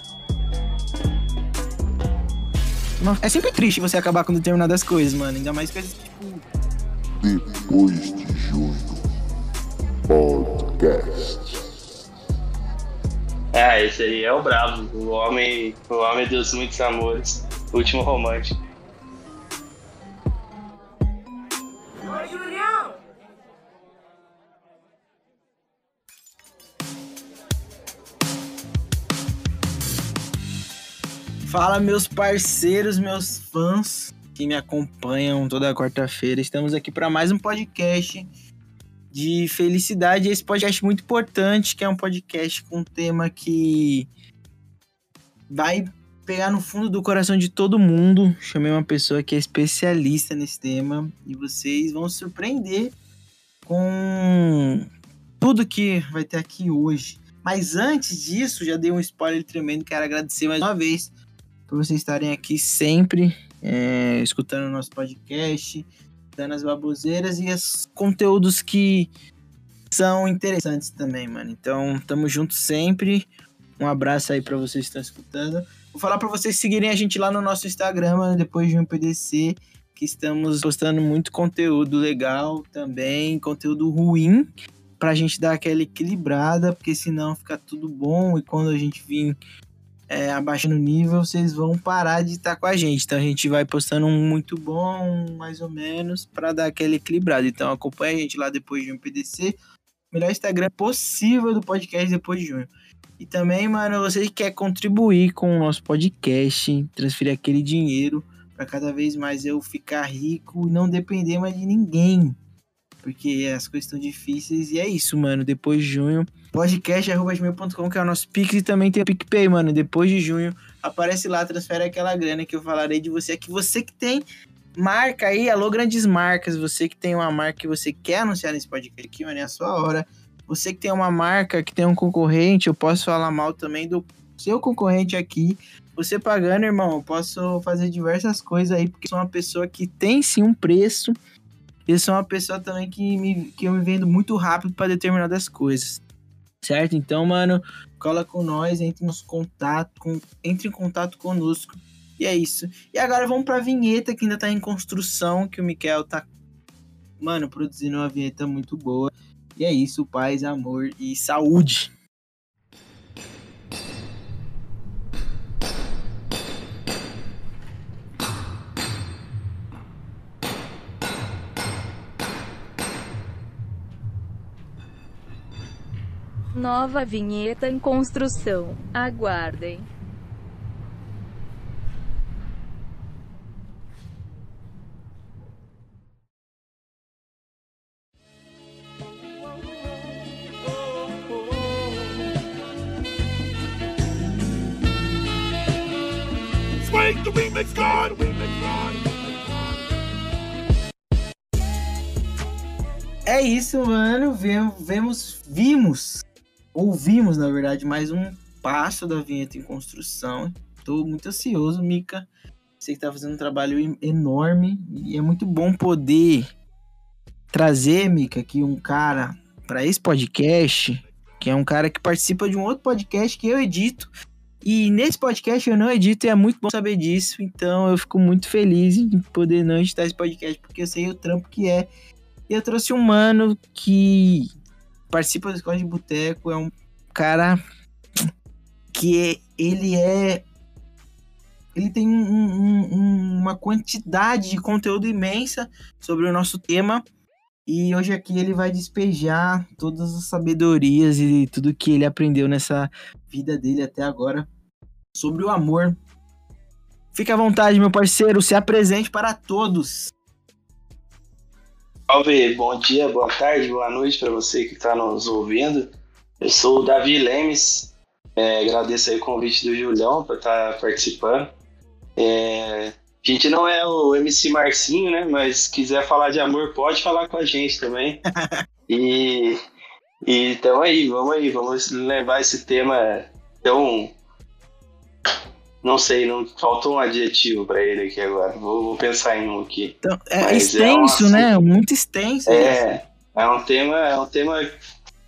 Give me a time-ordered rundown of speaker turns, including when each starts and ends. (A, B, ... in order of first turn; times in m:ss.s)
0:03.0-0:06.4 A
0:07.2-0:09.0 B
0:10.1-0:11.6 B
0:13.5-0:18.6 C
0:31.4-0:38.3 A
0:39.1-0:44.1 A
0:45.5-0:52.9 A
0:53.6-0:54.9 A
0:55.4-1:01.1 A
1:01.7-1:09.1 A
1:09.9-1:13.3 A
1:13.8-1:29.4 A
1:30.1-1:39.6 A
1:40.1-1:52.4 A
1:53.0-2:04.2 A
2:04.8-2:21.1 A
2:21.9-2:26.0 A
2:26.6-2:36.3 A
2:37.2-2:41.9 A
2:56.5-2:59.8 D
3:16.9-3:18.3 B
3:23.3-3:32.3 A
3:32.8-3:36.5 A
3:37.5-3:44.1 A
3:44.6-3:51.9 A
3:52.5-3:54.5 A
3:55.1-3:57.6 A
3:58.9-4:00.4 A
4:01.7-4:07.0 A
4:07.7-4:14.5 A
4:15.1-4:16.0 A
4:17.1-4:20.1 A
4:22.1-4:25.9 C
4:26.4-4:31.5 C
4:32.2-4:38.2 C
4:38.4-4:38.6 A
4:38.9-4:39.6 C
4:40.2-4:44.1 C
4:45.8-4:51.5 C
4:50.0-4:52.8 A
4:52.5-4:54.7 C